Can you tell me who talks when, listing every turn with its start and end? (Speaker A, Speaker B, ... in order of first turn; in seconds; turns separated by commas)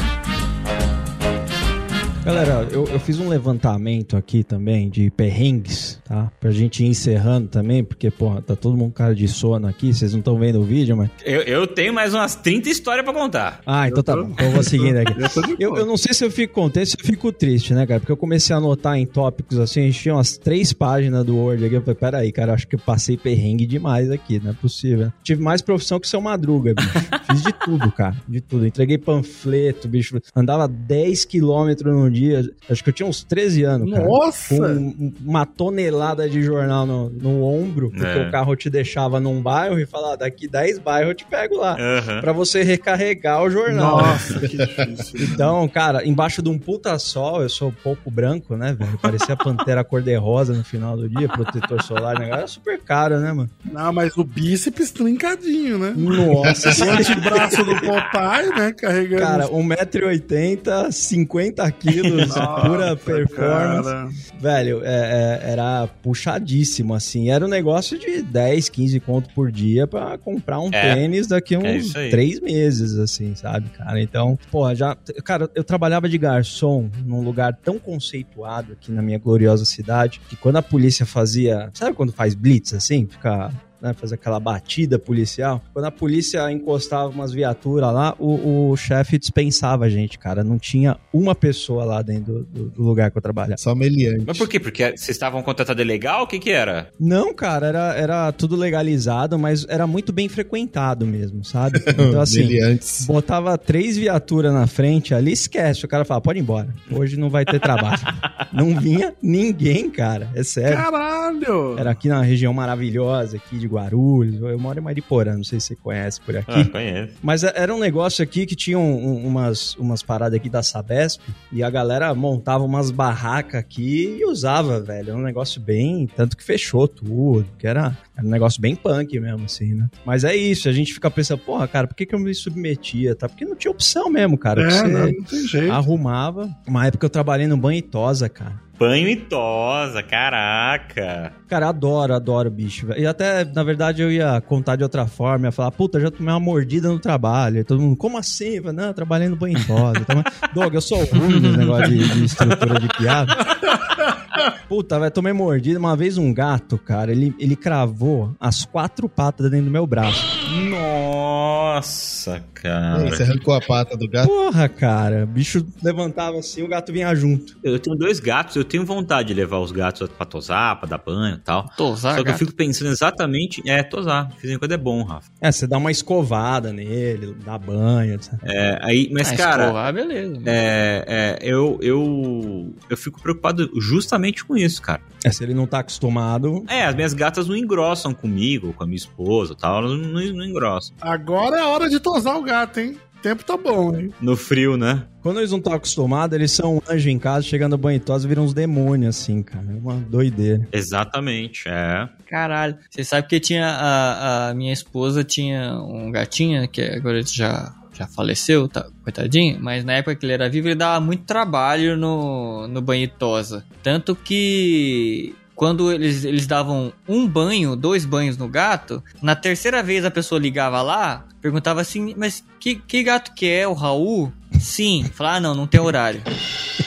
Speaker A: 2.2-11.1, Speaker B: 11.2-13.6, Speaker A: 13.7-44.4, Speaker C: 13.9-15.8, Speaker C: 33.8-34.8, Speaker B: 37.9-38.4, Speaker B: 41.8-42.3, Speaker C: 43.7-45.5, Speaker D: 44.5-44.8, Speaker A: 45.2-53.5, Speaker C: 53.7-59.5, Speaker A: 56.0-57.5, Speaker D: 56.5-56.8, Speaker B: 57.0-58.1, Speaker A: 59.2-93.6, Speaker B: 62.0-62.8, Speaker C: 62.1-64.2, Speaker B: 70.7-71.0, Speaker B: 71.6-72.2, Speaker D: 93.6-94.5, Speaker B: 94.3-96.9, Speaker A: 97.0-110.9, Speaker D: 101.9-103.1, Speaker C: 110.7-111.9, Speaker A: 111.8-138.6, Speaker B: 116.5-117.1, Speaker C: 134.6-135.8, Speaker B: 138.8-141.3, Speaker A: 141.5-153.4, Speaker E: 151.2-151.9, Speaker A: 154.7-160.3, Speaker B: 160.4-163.2, Speaker D: 162.9-164.3, Speaker A: 164.2-167.6, Speaker B: 167.6-175.2, Speaker E: 171.7-172.4, Speaker A: 175.4-178.4, Speaker B: 178.4-179.8, Speaker E: 179.2-180.6, Speaker B: 180.4-185.0, Speaker A: 185.2-186.7, Speaker B: 186.7-190.9, Speaker C: 191.0-194.1, Speaker B: 194.2-195.1, Speaker A: 195.2-200.7, Speaker B: 200.7-202.1, Speaker E: 202.3-226.3